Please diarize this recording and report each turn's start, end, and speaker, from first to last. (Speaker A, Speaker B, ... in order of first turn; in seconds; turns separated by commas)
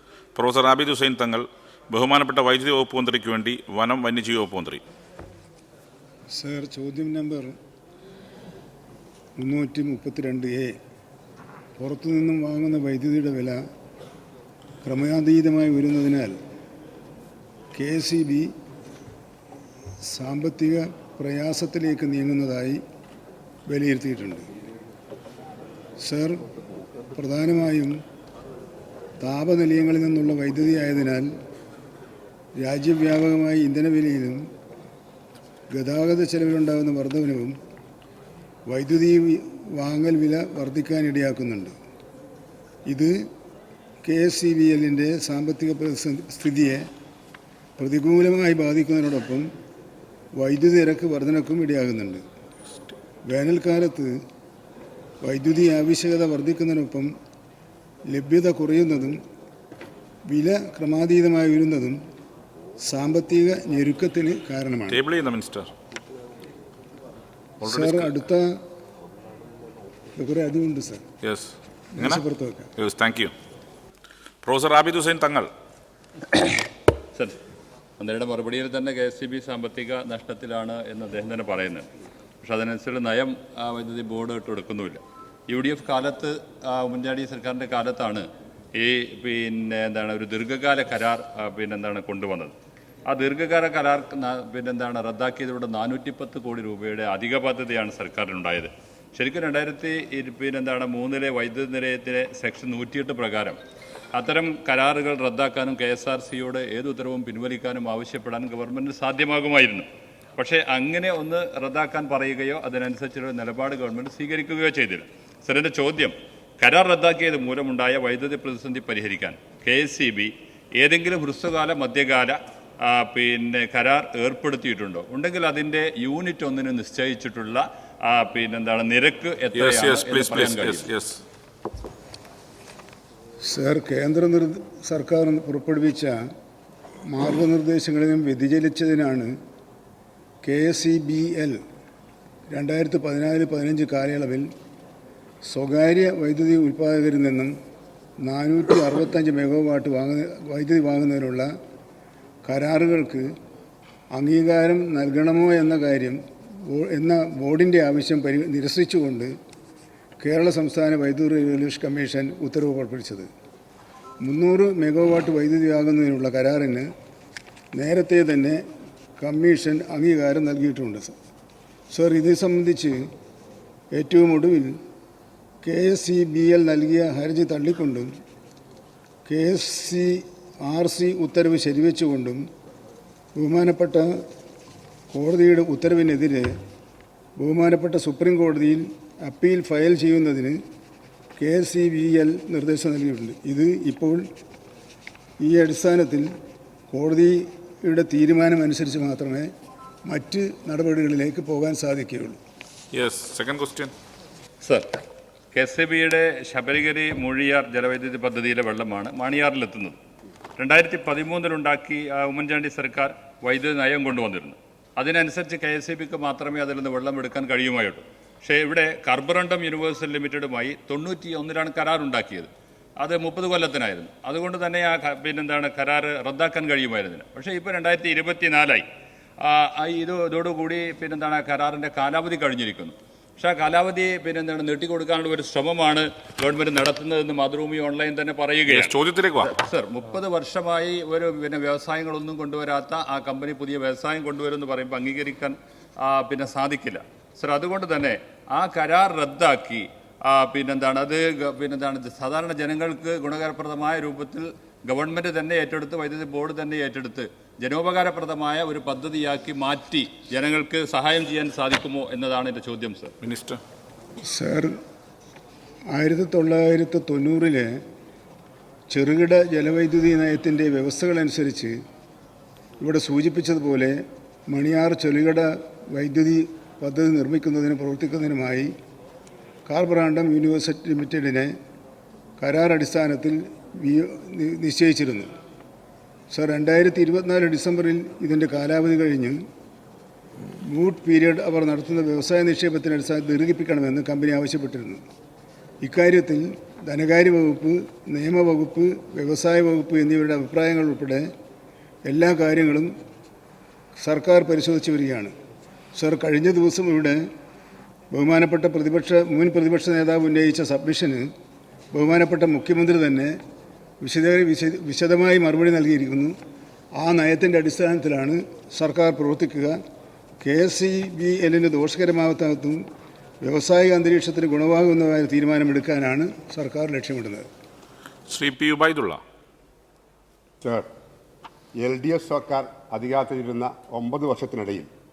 Speaker A: 0.3-4.8, Speaker B: 6.3-7.5, Speaker B: 9.4-10.8, Speaker B: 11.8-13.6, Speaker B: 14.8-16.4, Speaker B: 17.7-18.5, Speaker B: 20.0-22.8, Speaker B: 23.7-24.5, Speaker B: 26.0-26.4, Speaker B: 27.1-28.0, Speaker B: 29.2-31.3, Speaker B: 32.6-34.4, Speaker B: 35.7-37.5, Speaker B: 38.7-41.7, Speaker B: 42.9-43.1, Speaker B: 44.0-46.8, Speaker B: 47.8-49.5, Speaker B: 50.4-52.2, Speaker B: 53.3-54.1, Speaker B: 55.2-57.1, Speaker B: 58.1-59.2, Speaker B: 60.3-62.0, Speaker B: 62.8-65.0, Speaker A: 64.9-65.7, Speaker A: 67.6-68.2, Speaker B: 67.6-68.5, Speaker B: 70.2-71.0, Speaker A: 71.2-72.2, Speaker B: 71.9-72.7, Speaker A: 72.8-73.3, Speaker A: 74.4-75.5, Speaker C: 78.0-81.9, Speaker C: 82.4-92.5, Speaker C: 93.1-103.6, Speaker C: 104.1-130.9, Speaker A: 129.5-131.2, Speaker B: 133.4-136.2, Speaker B: 137.1-139.3, Speaker B: 140.4-141.6, Speaker B: 142.5-144.5, Speaker B: 145.4-147.5, Speaker B: 148.2-151.5, Speaker B: 152.4-153.3, Speaker B: 154.1-159.3, Speaker B: 160.2-163.3, Speaker B: 164.2-166.9, Speaker B: 167.7-168.6, Speaker B: 169.2-171.1, Speaker B: 171.9-173.0, Speaker B: 173.9-174.7, Speaker B: 175.6-178.1, Speaker B: 179.3-182.4, Speaker B: 183.3-184.1, Speaker B: 185.1-186.5, Speaker B: 187.4-190.6, Speaker B: 191.4-194.2, Speaker B: 195.4-196.3, Speaker B: 196.9-199.5, Speaker B: 200.1-202.4, Speaker A: 202.9-203.9, Speaker C: 204.6-204.9, Speaker C: 205.5-210.0, Speaker C: 210.6-222.5, Speaker C: 223.0-228.8, Speaker C: 229.4-263.1, Speaker A: 238.7-239.5, Speaker A: 263.2-263.6, Speaker B: 264.2-264.7, Speaker B: 265.9-267.8, Speaker B: 268.9-271.8, Speaker B: 272.8-278.7, Speaker B: 279.7-281.5, Speaker B: 282.4-285.3, Speaker B: 286.3-289.4, Speaker B: 290.6-295.0, Speaker B: 295.8-301.3, Speaker B: 302.1-302.9, Speaker B: 304.0-305.3, Speaker B: 305.9-307.2, Speaker B: 308.1-311.3, Speaker B: 311.9-313.4, Speaker B: 314.0-316.3, Speaker B: 317.0-319.8, Speaker B: 320.4-322.8, Speaker B: 323.4-327.5, Speaker A: 328.3-329.2, Speaker D: 330.6-330.9, Speaker D: 331.8-334.9